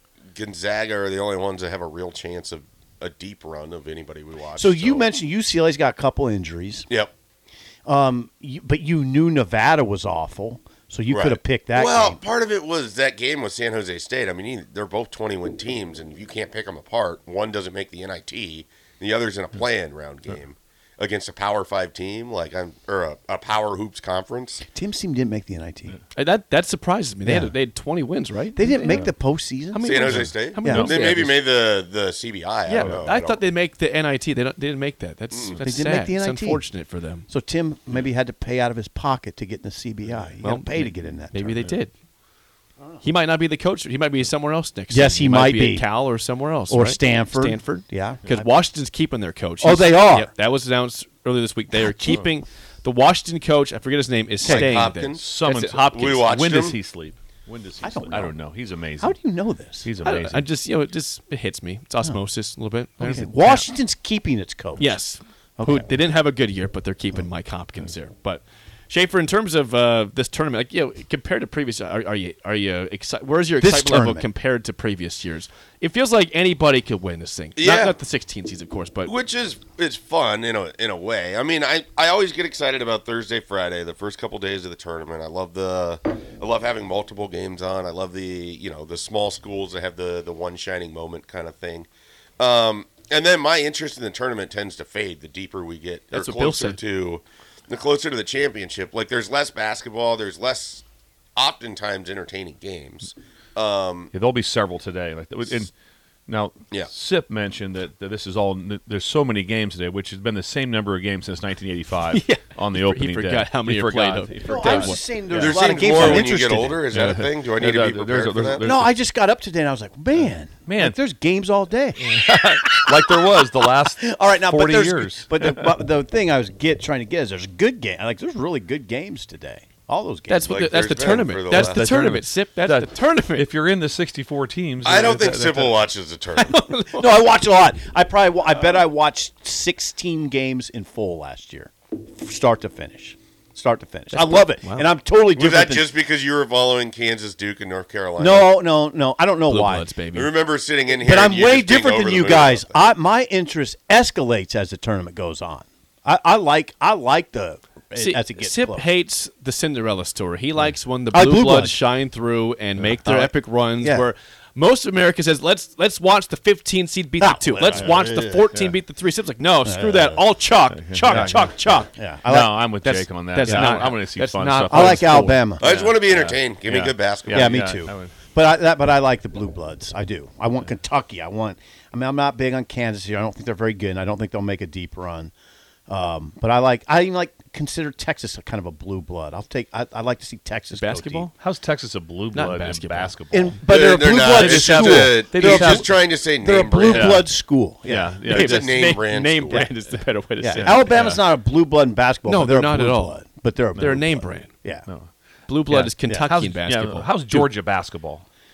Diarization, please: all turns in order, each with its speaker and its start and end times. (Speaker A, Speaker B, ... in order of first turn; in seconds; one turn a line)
Speaker A: 0.3-5.1
Speaker B: 4.5-6.9
Speaker B: 7.8-12.2
Speaker A: 11.1-24.6
Speaker B: 24.7-26.0
Speaker C: 26.1-29.1
Speaker B: 27.2-27.5
Speaker B: 28.6-30.9
Speaker C: 29.7-31.4
Speaker A: 29.8-33.5
Speaker D: 30.7-31.2
Speaker C: 32.7-37.2
Speaker D: 32.8-33.1
Speaker A: 35.3-35.6
Speaker B: 35.6-36.7
Speaker B: 37.3-41.6
Speaker C: 40.4-41.9
Speaker C: 43.0-56.0
Speaker B: 44.9-45.9
Speaker B: 46.7-48.5
Speaker B: 49.6-50.3
Speaker D: 52.0-52.3
Speaker A: 54.4-56.8
Speaker D: 54.4-59.1
Speaker B: 57.8-58.3
Speaker B: 59.0-59.9
Speaker D: 59.8-60.5
Speaker C: 60.0-63.7
Speaker B: 63.0-65.0
Speaker C: 64.8-79.1
Speaker B: 65.6-65.9
Speaker B: 73.6-74.3
Speaker A: 77.6-78.0
Speaker A: 79.0-100.8
Speaker C: 96.1-96.8
Speaker A: 101.3-104.1
Speaker D: 104.1-105.7
Speaker D: 106.3-116.3
Speaker C: 112.1-115.0
Speaker B: 114.4-116.8
Speaker A: 115.3-118.7
Speaker D: 116.9-118.9
Speaker C: 116.9-117.2
Speaker B: 118.6-122.9
Speaker D: 120.2-121.0
Speaker D: 122.0-125.7
Speaker B: 123.8-130.8
Speaker C: 130.3-133.5
Speaker A: 130.5-131.9
Speaker D: 131.5-135.8
Speaker A: 134.8-136.6
Speaker C: 136.3-137.2
Speaker B: 136.9-145.9
Speaker C: 144.1-144.9
Speaker A: 145.3-148.5
Speaker B: 148.2-149.9
Speaker C: 149.5-150.3
Speaker A: 150.1-152.8
Speaker B: 150.9-158.9
Speaker C: 157.9-171.9
Speaker B: 161.1-161.8
Speaker B: 163.0-164.1
Speaker B: 167.2-168.5
Speaker D: 168.5-168.8
Speaker B: 169.6-170.3
Speaker D: 170.7-171.6
Speaker B: 171.1-172.8
Speaker D: 172.2-178.1
Speaker C: 172.8-175.4
Speaker B: 173.4-173.9
Speaker B: 174.7-175.7
Speaker A: 175.6-177.5
Speaker B: 177.3-185.3
Speaker B: 185.9-191.3
Speaker C: 190.7-191.3
Speaker D: 191.3-193.5
Speaker C: 192.3-193.5
Speaker B: 193.3-198.2
Speaker A: 193.7-197.2
Speaker D: 194.3-195.9
Speaker D: 196.9-197.3
Speaker D: 197.8-198.7
Speaker C: 198.2-201.0
Speaker A: 198.3-199.7
Speaker B: 200.4-204.9
Speaker D: 200.6-201.2
Speaker C: 202.2-203.2
Speaker C: 203.8-204.5
Speaker C: 205.5-207.5
Speaker D: 205.7-208.2